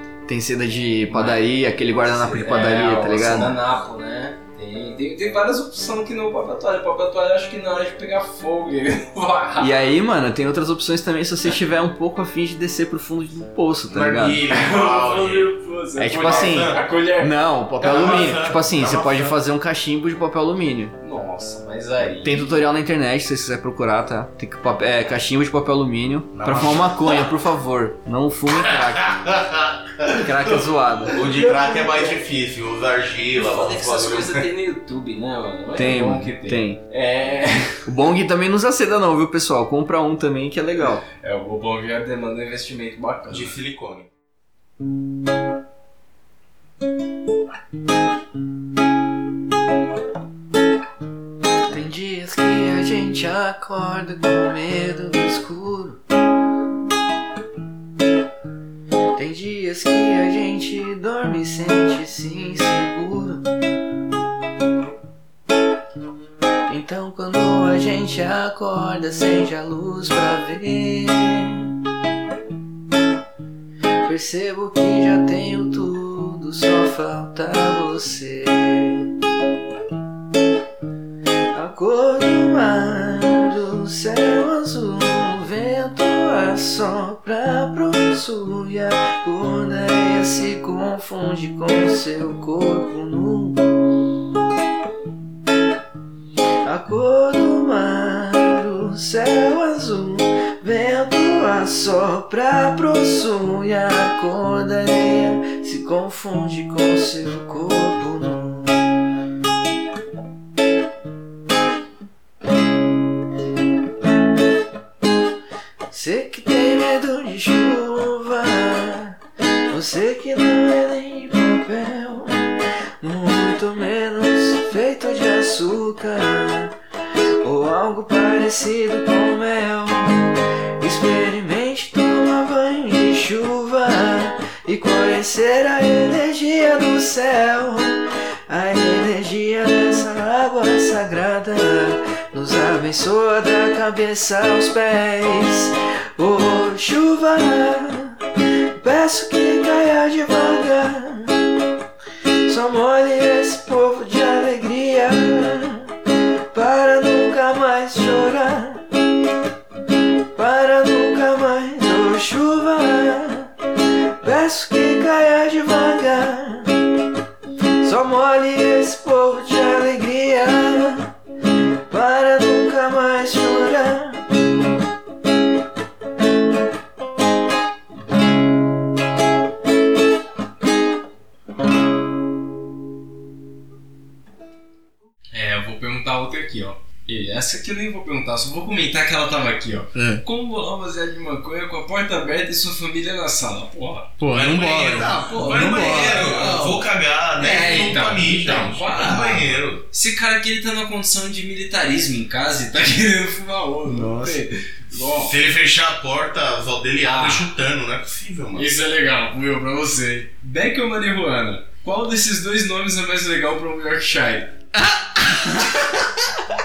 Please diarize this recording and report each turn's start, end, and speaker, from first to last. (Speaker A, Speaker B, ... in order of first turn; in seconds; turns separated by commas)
Speaker A: 0.3-3.6, Speaker B: 1.1-1.5, Speaker B: 2.0-9.9, Speaker A: 9.6-14.5, Speaker C: 13.9-15.5, Speaker B: 14.4-17.4, Speaker A: 16.0-20.9, Speaker C: 16.2-16.8, Speaker C: 17.8-19.4, Speaker B: 21.0-22.5, Speaker A: 22.2-29.2, Speaker C: 26.3-27.2, Speaker C: 28.6-34.5, Speaker A: 30.2-31.2, Speaker B: 31.1-32.2, Speaker B: 33.4-37.9, Speaker A: 35.8-36.8, Speaker A: 37.9-41.0, Speaker B: 41.1-43.6, Speaker C: 43.3-44.1, Speaker A: 51.7-56.0, Speaker A: 59.2-63.5, Speaker A: 66.7-71.8, Speaker A: 74.0-79.2, Speaker A: 81.5-93.9, Speaker A: 96.6-108.8, Speaker A: 115.9-119.2, Speaker A: 119.7-126.8, Speaker A: 127.4-151.5, Speaker A: 152.5-156.0, Speaker A: 156.5-158.9, Speaker A: 160.4-166.9, Speaker A: 167.8-171.2, Speaker A: 171.9-174.3, Speaker B: 185.3-194.2, Speaker A: 189.9-190.2, Speaker A: 194.2-196.3, Speaker C: 194.3-199.8, Speaker B: 195.0-205.3, Speaker A: 203.8-204.4, Speaker C: 205.1-208.8, Speaker B: 207.0-207.5, Speaker B: 208.6-214.5, Speaker A: 214.7-216.4